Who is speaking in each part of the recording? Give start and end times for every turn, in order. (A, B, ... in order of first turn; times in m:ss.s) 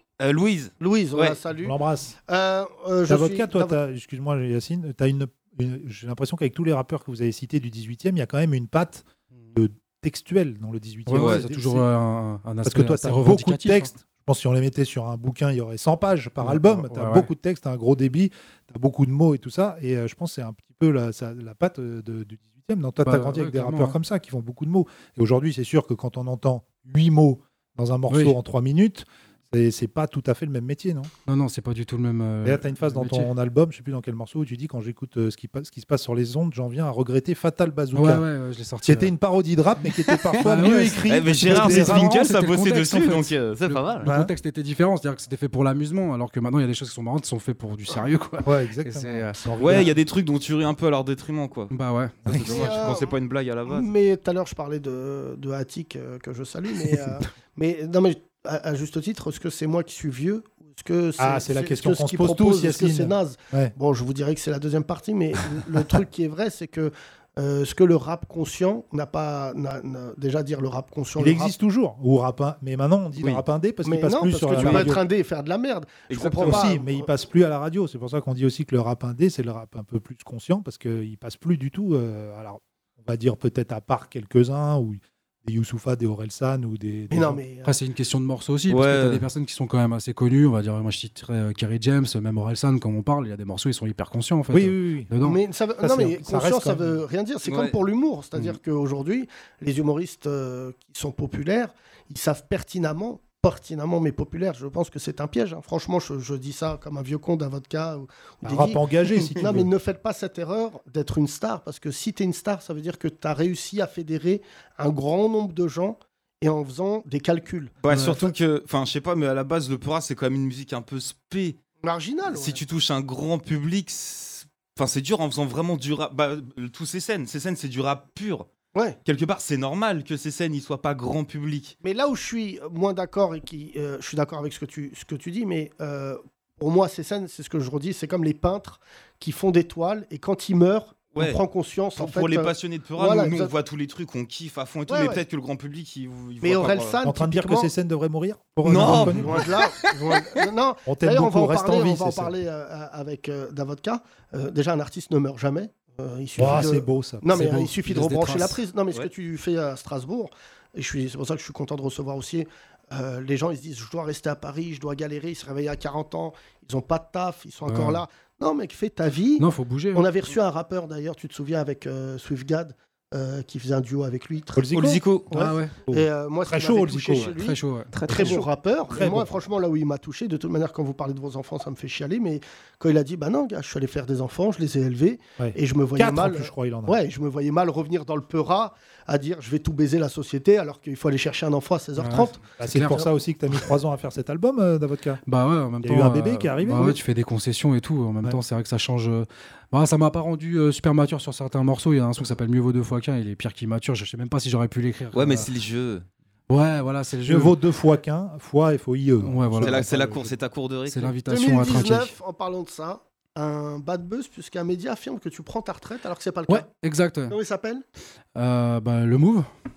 0:00.2-0:01.4 A
0:00.8-0:03.8 B
0:01.6-0:02.2 C
0:03.1-0:11.9 C
0:11.1-0:13.9 D
0:11.1-0:11.5 A
0:12.6-0:31.1 C
0:16.4-0:17.3 D
0:23.0-0:24.0 D
0:28.1-0:28.4 D
0:31.3-0:33.3 D
0:32.4-0:38.3 C
0:37.9-0:39.1 D
0:38.8-0:42.2 C
0:40.3-0:44.0 A
0:40.4-0:49.9 D
0:44.0-0:44.3 C
0:48.4-0:49.9 C
0:49.6-0:51.7 A
0:51.7-0:52.4 D
0:52.2-0:53.9 A
0:52.4-0:53.1 B
0:53.6-1:11.5 B
1:01.2-1:03.7 C
1:11.2-1:15.0 C
1:13.8-1:17.1 B
1:14.5-1:14.9 A
1:16.1-1:16.7 A
1:16.4-1:27.4 C
1:27.1-1:27.8 B
1:27.6-1:35.4 D
1:28.7-1:29.2 A
1:34.5-1:35.1 C
1:35.2-1:58.2 B
1:35.8-1:37.0 C
1:37.4-1:37.7 A
1:48.4-1:49.7 C
1:57.8-2:01.6 A
1:57.9-1:58.2 D
2:01.8-2:02.6 B
2:02.3-2:08.5 A
2:09.0-2:11.8 A
2:11.8-2:23.5 B
2:21.1-2:21.4 A
2:22.0-2:27.0 A
2:24.9-2:25.2 B
2:26.4-2:27.7 B
2:27.0-2:29.5 C
2:28.6-2:29.7 A
2:28.7-2:54.7 B
2:30.8-2:32.4 C
2:36.4-2:37.6 C
2:37.3-2:38.6 D
2:47.6-2:48.0 D
2:49.4-2:50.1 D
2:54.5-2:55.0 C
2:54.7-2:55.3 A
2:55.3-3:13.0 B
2:55.3-2:55.7 D
2:55.8-2:57.4 C
2:57.2-2:58.4 D
2:58.1-2:59.4 C
3:05.4-3:07.0 C
3:12.0-3:13.1 D
3:12.6-3:15.2 C
3:15.2-3:25.5 D
3:15.8-3:17.0 C
3:25.1-3:26.1 A
3:26.5-3:27.6 D
3:27.2-3:30.3 C
3:29.2-3:30.0 D
3:29.6-3:31.2 A
3:30.9-3:32.1 D
3:31.3-3:36.7 B
3:36.5-3:37.3 D
3:37.3-3:37.8 B
3:38.4-3:39.5 D